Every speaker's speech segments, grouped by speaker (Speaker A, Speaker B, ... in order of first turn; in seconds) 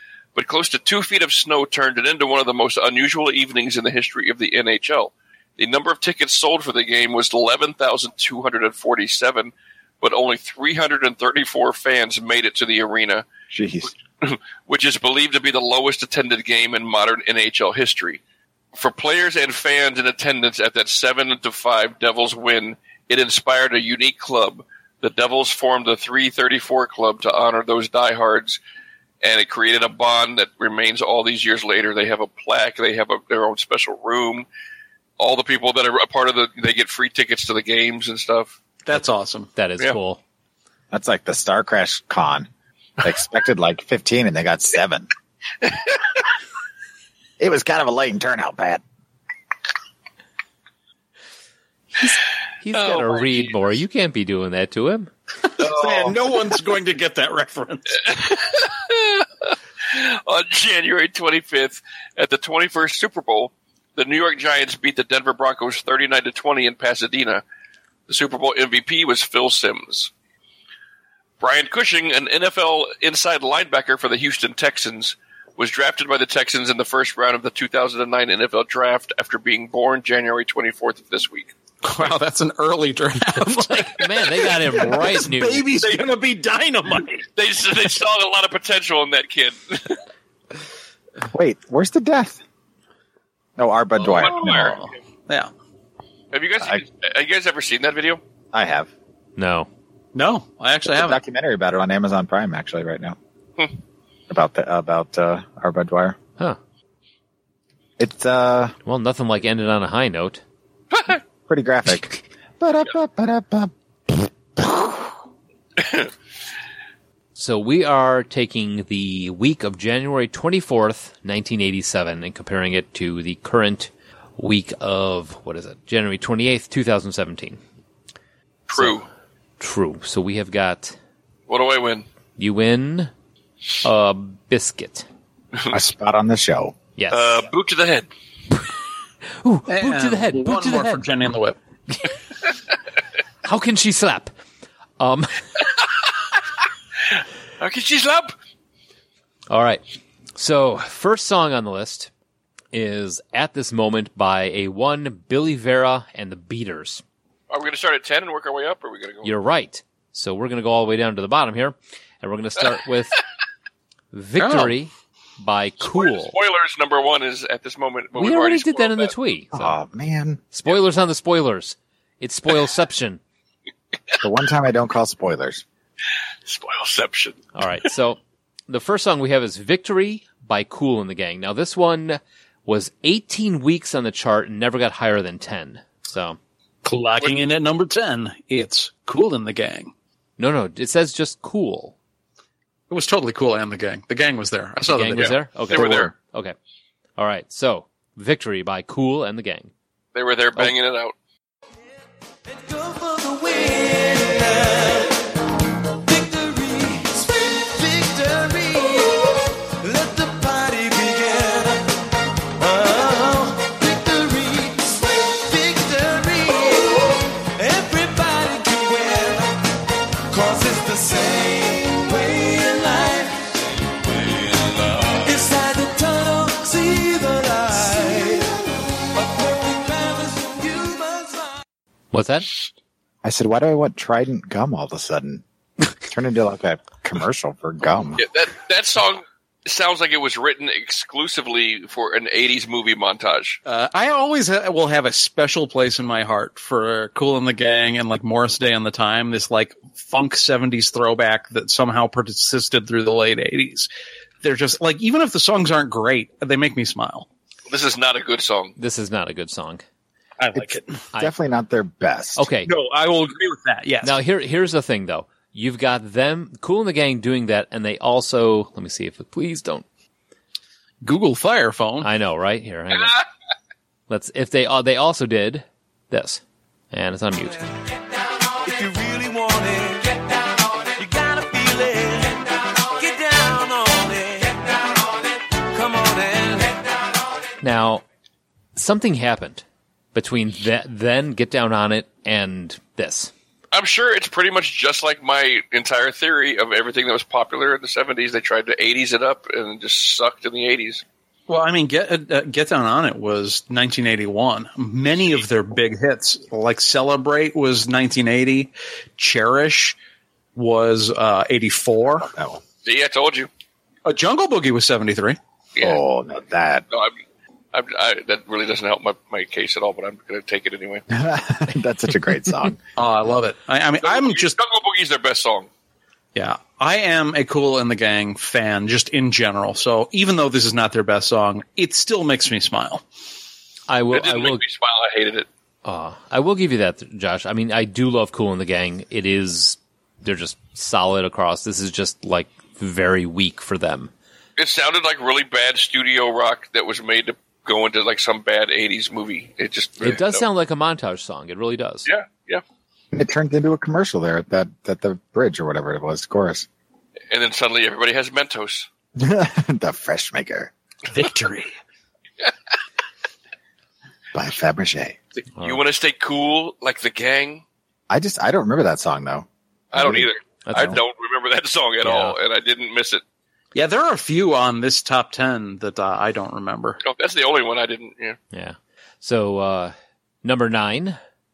Speaker A: 0.4-13.3, 14.2-18.2, 18.8-28.6, 29.2-34.5, 35.2-38.5, 52.8-53.3, 55.6-56.2, 58.0-59.3, 59.9-67.4, 68.1-70.1, 71.4-81.5, 87.4-90.0, 94.1-94.9, 96.3-98.2, 110.9-111.2, 115.8-116.1, 128.7-129.1, 131.5-132.1, 137.1-138.1, 147.6-148.3, 157.5-159.3, 165.8-169.1, 176.5-177.5, 195.2-196.1, 200.2-201.1, 238.2-243.6, 257.7-258.8, 293.7-301.0, 312.9-313.5, 315.8-316.0, 316.9-317.2, 317.7-321.0, 324.0-325.7, 334.1-335.5, 344.6-350.4, 352.1-352.6, 357.3-358.9, 365.6-367.6, 369.9-373.2, 377.0-378.4
Speaker B: 13.5-13.9, 40.9-42.5, 43.0-45.1, 47.4-48.8, 91.3-92.4, 93.6-94.8, 98.5-98.9, 100.9-103.2, 104.3-106.2, 108.0-108.8, 111.5-115.1, 135.7-136.8, 169.5-170.4, 174.2-175.6, 233.2-235.4, 236.0-238.2, 261.1-262.5, 312.2-312.6, 315.8-316.9, 321.1-322.8, 353.1-356.7, 359.2-360.7, 364.3-365.2, 368.1-371.0
Speaker C: 38.9-39.5, 55.6-58.1, 81.8-87.3, 94.0-95.5, 100.1-101.2, 139.7-141.6, 164.4-164.8, 186.8-189.9, 192.9-195.4, 243.7-253.9, 254.4-257.3, 260.4-261.0, 262.7-264.2, 271.0-272.1, 301.5-310.0, 310.6-312.3, 314.1-315.4, 323.0-324.6, 326.4-333.0, 361.1-361.8, 373.7-377.0
Speaker D: 39.5-40.2, 52.0-55.1, 83.3-85.7, 99.4-99.7, 108.8-110.4, 117.4-127.6, 128.8-129.0, 129.6-131.0, 132.4-133.1, 133.8-135.1, 137.0-137.4, 139.4-141.1, 143.4-144.3, 145.0-145.4, 149.5-149.8, 150.4-152.1, 152.7-157.0, 159.2-163.2, 164.1-166.3, 168.2-169.8, 170.5-173.2, 177.6-186.4, 190.4-191.9, 194.8-196.6, 197.2-199.7, 232.1-232.5, 258.8-259.8, 260.6-261.3, 262.4-262.7, 264.0-269.9, 272.0-273.2, 274.1-277.6, 287.6-288.0, 288.8-293.3, 333.9-334.6, 335.9-344.1, 350.0-352.1, 370.7-371.0, 372.0-372.4, 378.5-381.2
Speaker E: 202.5-205.2, 206.0-211.9, 212.6-219.6, 220.3-223.6, 224.1-231.6, 278.6-280.3, 281.0-284.8, 285.7-286.9